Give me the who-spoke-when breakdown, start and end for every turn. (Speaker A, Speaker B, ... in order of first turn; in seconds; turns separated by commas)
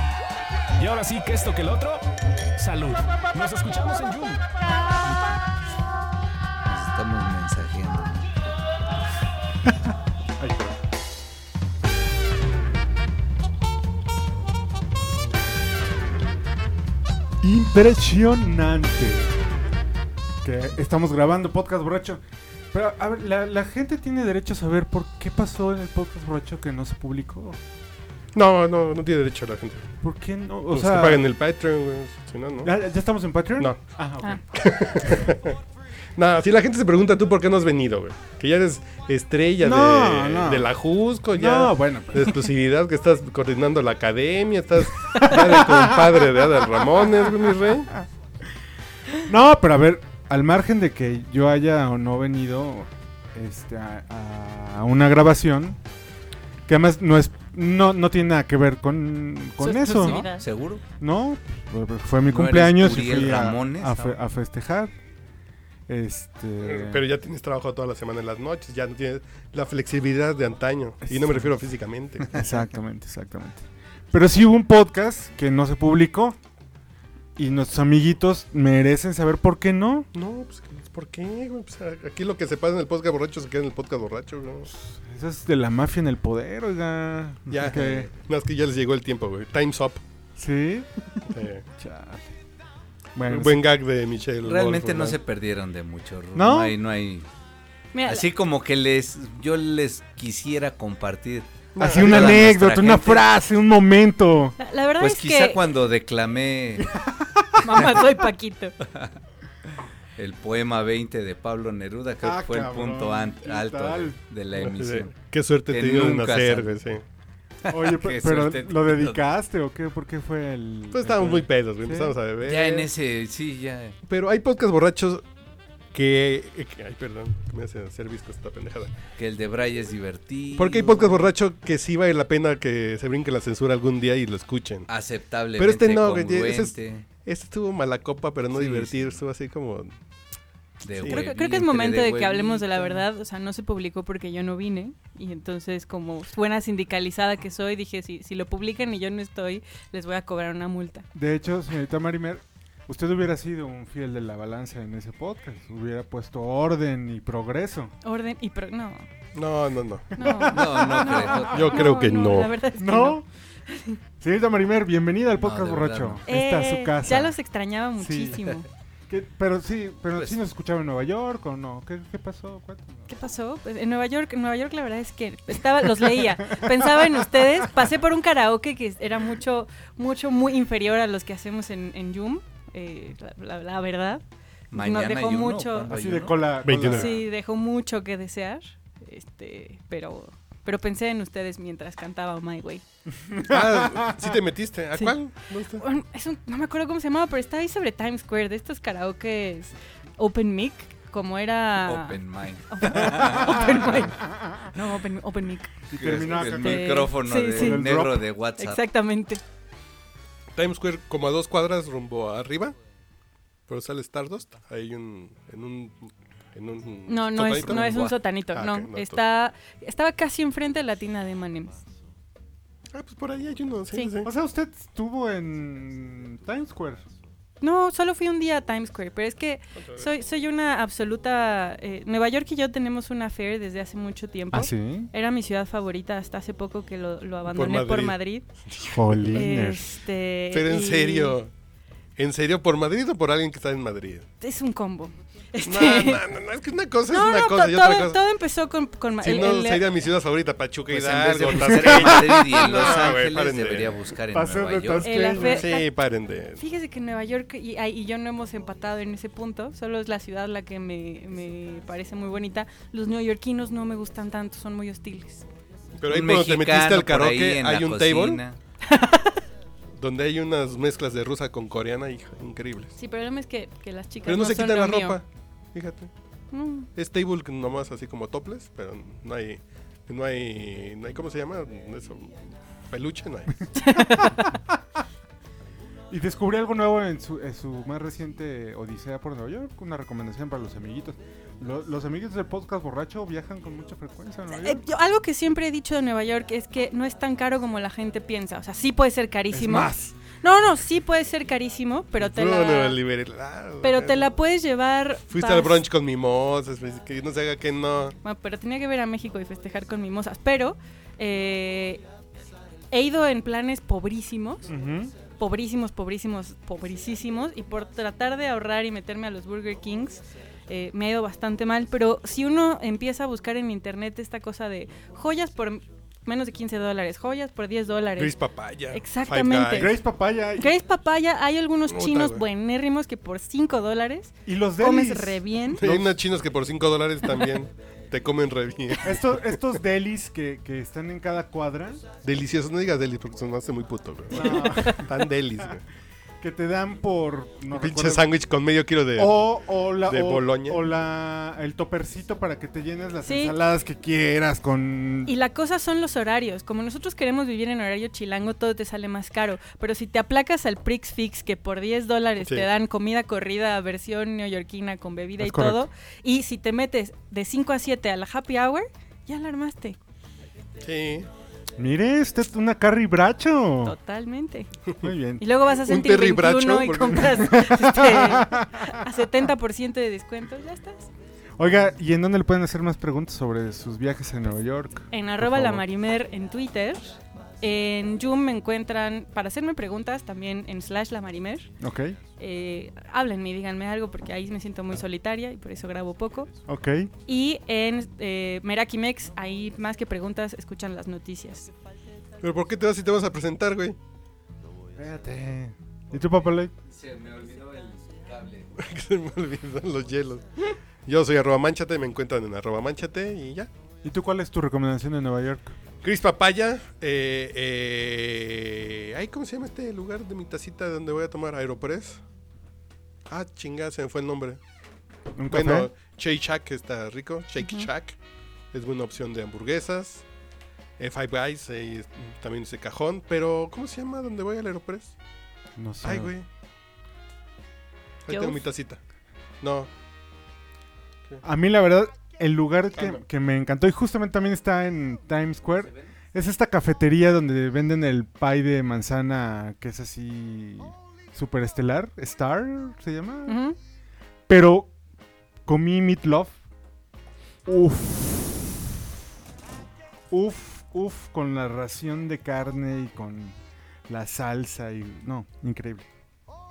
Speaker A: 0.8-2.0, Speaker A: 2.6-4.5, Speaker B: 6.7-8.3, Speaker C: 9.7-10.7, Speaker C: 17.4-19.4, Speaker C: 20.4-27.6, Speaker D: 28.3-29.9, Speaker C: 30.0-31.2, Speaker D: 30.7-32.7, Speaker C: 32.6-35.3, Speaker D: 34.5-35.6, Speaker D: 36.1-47.9, Speaker C: 39.6-40.7, Speaker C: 41.3-42.5, Speaker C: 45.2-47.3, Speaker C: 49.2-55.8, Speaker C: 56.7-60.3, Speaker E: 59.6-60.5, Speaker B: 60.1-60.8, Speaker C: 61.0-65.0, Speaker B: 62.3-64.2, Speaker C: 65.9-67.1, Speaker D: 66.6-72.5, Speaker C: 71.1-71.5, Speaker C: 72.3-76.4, Speaker C: 77.3-80.1, Speaker D: 80.1-84.7, Speaker C: 84.9-88.1, Speaker D: 87.5-90.0, Speaker C: 90.4-92.4, Speaker D: 91.3-91.6, Speaker C: 93.2-93.6, Speaker D: 93.3-95.2, Speaker B: 94.4-97.3, Speaker C: 96.3-96.8, Speaker E: 97.9-98.3, Speaker B: 98.0-103.2, Speaker D: 101.7-102.4, Speaker C: 101.8-104.6, Speaker E: 104.6-105.6, Speaker B: 105.0-106.9, Speaker C: 106.8-107.9, Speaker E: 107.6-108.8, Speaker B: 108.8-109.2, Speaker B: 110.2-115.1, Speaker C: 112.2-114.2, Speaker D: 114.6-117.0, Speaker B: 115.7-116.7, Speaker B: 117.6-119.2, Speaker C: 117.7-122.2, Speaker D: 120.9-122.9, Speaker B: 122.4-124.0, Speaker D: 124.1-125.2, Speaker D: 125.9-128.9, Speaker B: 129.2-131.3, Speaker D: 130.6-134.9, Speaker B: 134.9-137.0, Speaker D: 135.6-139.9, Speaker B: 138.5-139.2, Speaker B: 140.8-143.0, Speaker D: 140.9-141.3, Speaker E: 141.0-151.1, Speaker C: 151.1-157.9, Speaker E: 158.0-159.1, Speaker D: 159.3-160.1, Speaker E: 160.1-164.0, Speaker C: 160.2-161.7, Speaker B: 160.5-161.9, Speaker D: 161.5-162.5, Speaker C: 162.8-163.2, Speaker C: 164.2-167.3, Speaker B: 165.4-166.2, Speaker E: 166.3-168.7, Speaker C: 168.0-168.5, Speaker C: 169.1-173.1, Speaker E: 173.1-185.9, Speaker C: 176.5-177.2, Speaker B: 184.7-186.5, Speaker C: 185.9-187.2, Speaker D: 186.6-187.1, Speaker E: 186.9-192.8, Speaker C: 193.2-194.3, Speaker D: 193.4-195.8, Speaker E: 195.7-205.9, Speaker B: 201.8-203.9, Speaker C: 203.1-204.7, Speaker C: 205.9-208.3, Speaker B: 205.9-208.9, Speaker E: 206.4-208.0, Speaker E: 208.6-209.4, Speaker D: 210.5-212.8, Speaker D: 213.7-217.8, Speaker E: 217.1-221.8, Speaker B: 217.7-218.1, Speaker D: 218.5-219.2, Speaker D: 222.9-224.3, Speaker C: 224.2-227.1, Speaker E: 227.6-238.4, Speaker D: 229.8-230.1, Speaker C: 234.5-235.1, Speaker D: 237.5-239.5, Speaker C: 238.9-239.9, Speaker E: 239.3-241.4, Speaker D: 240.5-241.5, Speaker D: 242.2-244.2, Speaker E: 244.4-246.2, Speaker D: 245.6-248.2, Speaker E: 247.1-249.8, Speaker D: 249.2-254.0, Speaker B: 250.9-255.2, Speaker C: 251.7-252.7, Speaker C: 254.3-255.8, Speaker E: 255.0-255.9, Speaker D: 255.3-256.6, Speaker E: 256.6-265.4, Speaker D: 265.9-268.4, Speaker B: 266.1-268.6, Speaker E: 268.8-269.4, Speaker D: 270.0-272.9, Speaker E: 272.9-275.2, Speaker D: 274.2-276.1, Speaker E: 276.5-276.9, Speaker D: 276.9-283.7, Speaker E: 283.7-284.6, Speaker C: 284.2-284.8, Speaker C: 286.1-294.8, Speaker E: 294.5-303.0, Speaker C: 299.5-300.2, Speaker D: 302.2-304.2, Speaker E: 303.8-305.8, Speaker D: 305.3-308.1, Speaker E: 308.2-312.0, Speaker E: 312.9-314.7, Speaker C: 314.7-315.1, Speaker E: 315.4-328.4, Speaker D: 328.2-329.9, Speaker E: 328.9-330.0, Speaker C: 329.7-330.7, Speaker E: 330.6-335.8, Speaker D: 331.9-332.4, Speaker C: 334.4-336.2, Speaker D: 335.7-339.6, Speaker C: 339.0-342.0, Speaker D: 342.2-345.8, Speaker C: 344.3-345.7, Speaker E: 344.3-345.1, Speaker C: 346.4-348.3, Speaker D: 347.7-349.4, Speaker C: 349.1-355.3, Speaker D: 350.1-350.8, Speaker E: 353.2-353.6, Speaker E: 355.2-370.0, Speaker D: 362.4-362.7, Speaker C: 365.4-365.8, Speaker D: 370.8-371.3, Speaker C: 371.8-373.9, Speaker E: 373.8-374.7, Speaker C: 375.0-375.4, Speaker E: 375.4-381.1, Speaker D: 375.7-377.6, Speaker C: 377.3-379.1, Speaker C: 381.6-385.8, Speaker E: 385.1-391.7, Speaker C: 391.8-392.2, Speaker E: 392.4-396.5, Speaker C: 396.6-397.1, Speaker E: 397.2-401.7, Speaker D: 402.4-404.0, Speaker C: 404.9-406.7, Speaker B: 406.8-408.7, Speaker D: 408.8-413.7, Speaker C: 414.0-415.7, Speaker D: 416.0-422.2, Speaker D: 423.3-424.6, Speaker C: 425.3-425.9, Speaker D: 425.4-428.1, Speaker E: 427.6-427.9, Speaker D: 428.7-430.2, Speaker D: 431.0-435.1, Speaker C: 435.8-436.3, Speaker D: 436.0-436.5, Speaker D: 438.2-439.0, Speaker E: 438.3-438.6, Speaker D: 439.6-439.9, Speaker C: 441.4-453.6, Speaker D: 443.0-443.2, Speaker B: 445.8-446.1, Speaker E: 453.5-453.8, Speaker C: 454.5-454.9, Speaker C: 455.6-456.6, Speaker C: 457.6-458.8, Speaker C: 460.3-463.6, Speaker C: 464.1-466.1